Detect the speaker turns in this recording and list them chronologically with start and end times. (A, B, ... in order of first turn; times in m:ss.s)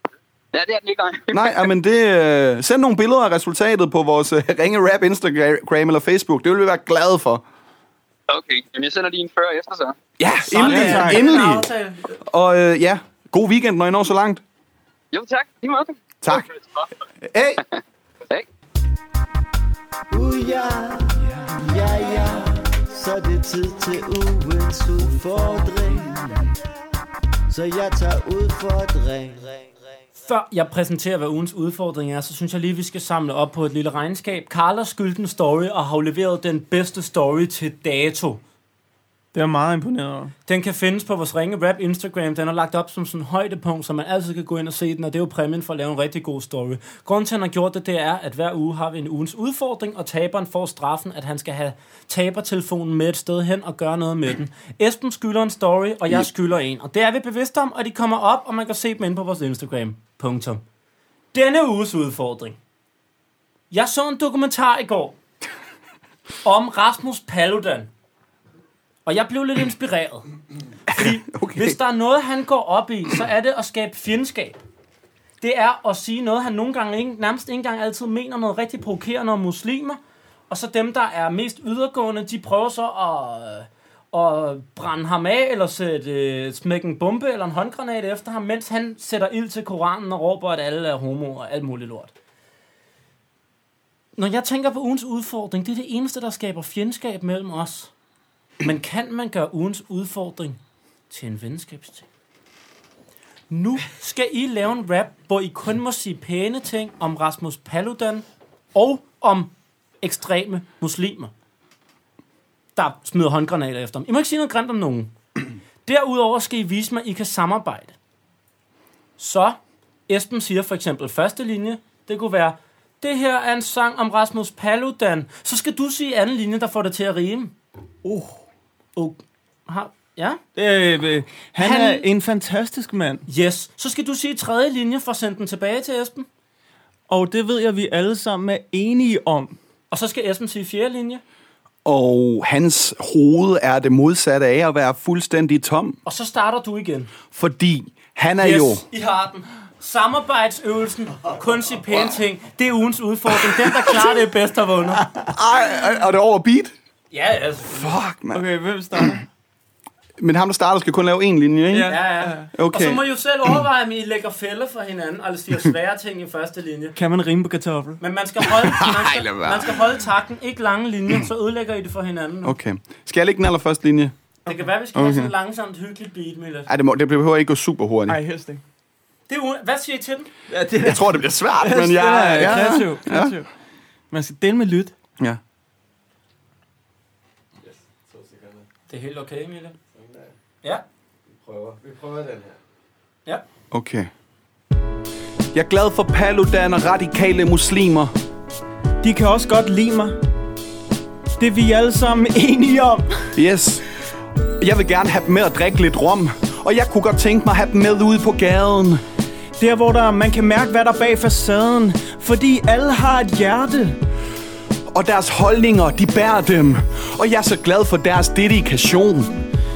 0:00.5-0:01.6 A
0:01.3-0:07.4 B
0:08.3-0:10.0 A
0:10.2-0:11.7 B
0:10.5-0:11.2 C
0:10.5-0:12.1 D
0:12.2-0:14.4 B
0:15.1-0:16.8 A
0:16.2-0:16.5 B
0:17.2-0:17.6 B
0:20.1-0:26.5 E
0:27.5-0:29.7 E
0:30.2-0:38.4 D
0:39.3-0:40.3 C
0:40.4-1:00.6 D
1:01.3-1:02.6 D
1:03.7-1:05.2 D
1:06.4-1:07.9 D
1:09.0-1:10.3 D
1:10.9-1:11.8 B
1:10.9-1:14.6 D
1:15.4-1:20.0 D
1:20.5-1:32.1 D
1:34.2-1:37.9 D
1:38.6-1:40.6 D
1:41.1-1:42.1 D
1:43.5-1:51.3 D
1:52.8-1:55.1 D
1:55.8-1:58.0 D
1:59.2-2:07.5 D
2:08.0-2:08.4 C
2:09.0-2:10.4 D
2:10.5-2:13.2 C
2:11.6-2:12.0 D
2:13.3-2:16.3 D
2:17.1-2:19.6 C
2:19.9-2:21.2 D
2:21.8-2:26.0 B
2:26.0-2:27.1 D
2:27.3-2:28.8 B
2:28.4-2:35.1 D
2:33.6-2:34.1 B
2:35.3-2:36.7 B
2:37.1-2:38.0 D
2:37.7-2:38.4 B
2:38.3-2:39.2 C
2:40.2-2:42.0 B
2:41.7-2:42.5 C
2:41.9-2:47.0 D
2:42.5-2:43.0 B
2:47.0-2:48.0 C
2:48.0-2:52.6 D
2:48.6-2:49.8 B
2:52.4-2:54.1 B
2:54.4-2:56.7 D
2:54.9-2:55.3 B
2:56.7-2:58.2 B
2:58.1-2:58.6 C
2:59.3-3:00.3 D
3:00.5-3:01.0 C
3:00.8-3:03.3 B
3:01.6-3:03.5 C
3:04.1-3:04.9 C
3:07.6-3:08.7 E
3:08.9-3:09.8 D
3:09.9-3:10.3 E
3:11.4-3:12.6 E
3:13.7-3:14.1 B
3:15.5-3:18.1 B
3:19.0-3:20.2 C
3:21.4-3:23.2 C
3:23.4-3:23.8 B
3:24.6-3:29.0 B
3:29.6-3:34.0 C
3:34.9-3:39.4 B